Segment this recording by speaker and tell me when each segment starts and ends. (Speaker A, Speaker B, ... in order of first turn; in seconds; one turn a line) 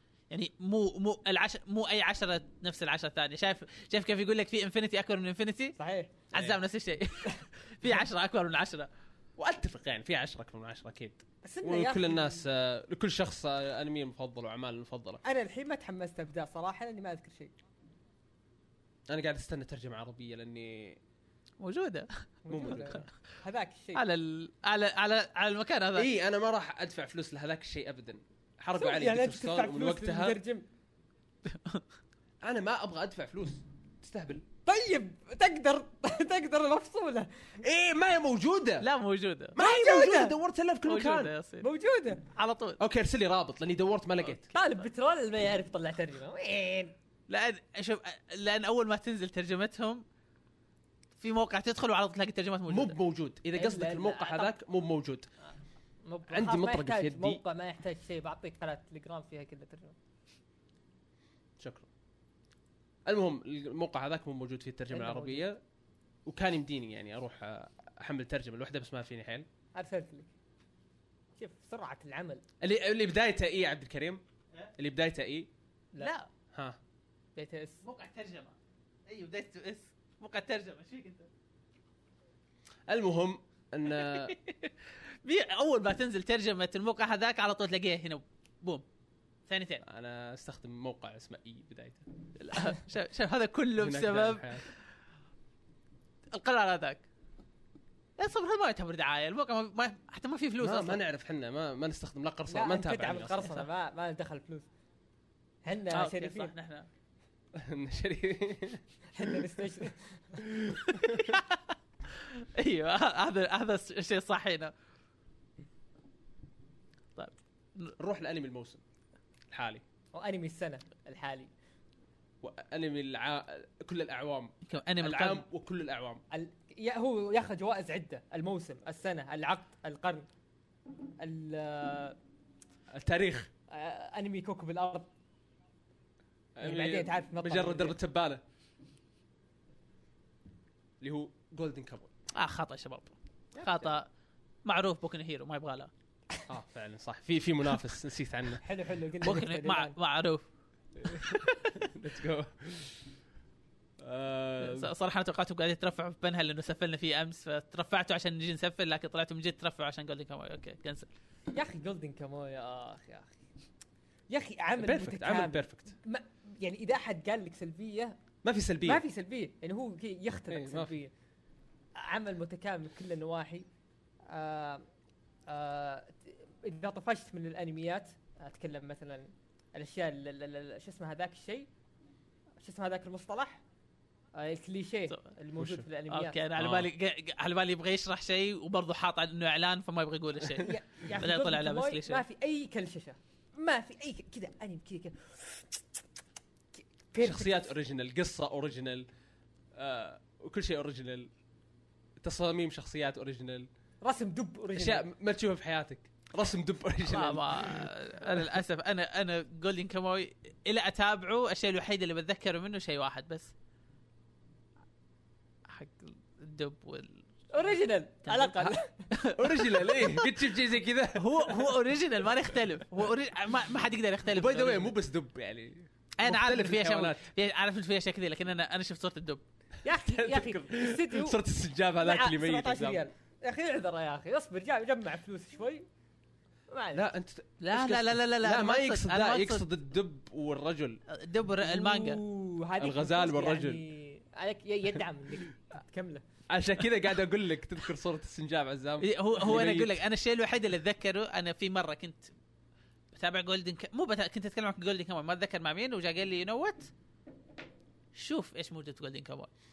Speaker A: 0.3-5.7
Speaker B: 5.8-6.2
Speaker C: 6.3-6.6
Speaker A: 6.3-8.9
Speaker C: 9.4-15.2
Speaker B: 11.4-12.4
Speaker B: 15.2-17.5
Speaker C: 19.1-21.0
Speaker A: 21.6-23.0
Speaker B: 22.4-24.0
Speaker C: 22.5-23.1
Speaker A: 23.9-26.1
Speaker C: 25.9-30.4
Speaker B: 28.8-30.7
Speaker A: 31.4-31.8
Speaker C: 32.4-34.4
Speaker B: 34.6-37.6
Speaker C: 37.6-38.9
Speaker A: 38.8-39.5
Speaker C: 39.5-41.3
Speaker B: 39.6-40.4
Speaker A: 40.9-41.7
Speaker B: 41.6-42.3
Speaker A: 42.3-42.8
Speaker C: 42.8-44.5
Speaker B: 44.5-46.9
Speaker A: 47.3-50.0
Speaker A: 51.2-53.0
Speaker C: 52.7-55.3
Speaker B: 53.5-54.5
Speaker B: 56.0-60.0
Speaker C: 56.3-57.4
Speaker C: 61.6-61.9
Speaker C: 63.1-65.6
Speaker B: 64.9-65.5
Speaker C: 66.3-69.5
Speaker B: 69.7-70.3
Speaker B: 71.4-72.4
Speaker C: 72.6-74.2
Speaker C: 74.8-75.5
Speaker A: 76.0-76.3
Speaker C: 76.5-76.8
Speaker B: 77.3-77.8
Speaker A: 77.8-78.5
Speaker A: 79.1-81.3
Speaker C: 82.9-84.3
Speaker A: 84.0-88.8
Speaker A: 89.5-89.8
Speaker C: 89.8-92.0
Speaker A: 92.4-94.8
Speaker C: 93.8-94.7
Speaker A: 96.3-97.0
Speaker A: 98.2-101.0
Speaker C: 100.6-103.6
Speaker B: 102.5-104.7
Speaker B: 105.6-106.5
Speaker A: 105.9-106.9
Speaker C: 107.5-109.3
Speaker B: 109.1-110.4
Speaker C: 110.4-111.3
Speaker A: 111.0-114.7
Speaker A: 117.2-118.0
Speaker C: 118.0-118.8
Speaker C: 119.5-119.8
Speaker B: 120.1-121.5
Speaker C: 122.4-126.2
Speaker A: 124.7-125.4
Speaker B: 126.3-130.3
Speaker B: 131.2-132.2
Speaker C: 132.9-133.5
Speaker B: 133.7-135.1
Speaker C: 136.6-138.4
Speaker B: 136.6-138.0
Speaker C: 141.0-142.1
Speaker A: 142.3-144.1
Speaker A: 144.6-145.9
Speaker C: 146.5-148.6
Speaker B: 148.6-149.9
Speaker A: 149.2-150.4
Speaker C: 151.0-153.1
Speaker A: 151.1-151.8
Speaker C: 154.0-154.9
Speaker A: 154.6-161.1
Speaker B: 161.5-163.4
Speaker B: 164.3-168.2
Speaker C: 164.8-165.9
Speaker C: 168.4-169.0
Speaker B: 168.8-171.1
Speaker C: 170.5-170.9
Speaker B: 172.0-173.7
Speaker B: 174.2-174.8
Speaker B: 175.5-181.7
Speaker B: 182.6-183.6
Speaker B: 184.3-186.4
Speaker C: 185.6-185.8
Speaker A: 186.1-192.2
Speaker C: 186.6-186.9
Speaker B: 190.6-196.0
Speaker B: 196.7-197.7
Speaker C: 197.2-199.1
Speaker C: 199.7-201.3
Speaker C: 202.2-203.7
Speaker B: 204.0-205.0
Speaker C: 204.7-208.4
Speaker A: 207.1-213.5
Speaker A: 215.7-217.4
Speaker B: 217.5-219.1
Speaker A: 218.2-220.4
Speaker C: 219.3-221.9
Speaker A: 221.2-224.9
Speaker C: 224.3-227.3
Speaker A: 226.2-229.4
Speaker B: 229.8-231.4
Speaker C: 230.0-233.0
Speaker B: 232.0-235.8
Speaker B: 236.7-237.1
Speaker C: 236.9-241.0
Speaker A: 237.6-239.6
Speaker A: 241.1-242.2
Speaker B: 241.6-246.2
Speaker C: 242.8-243.8
Speaker C: 246.5-250.0
Speaker A: 249.0-252.3
Speaker A: 253.1-256.9
Speaker A: 258.1-259.5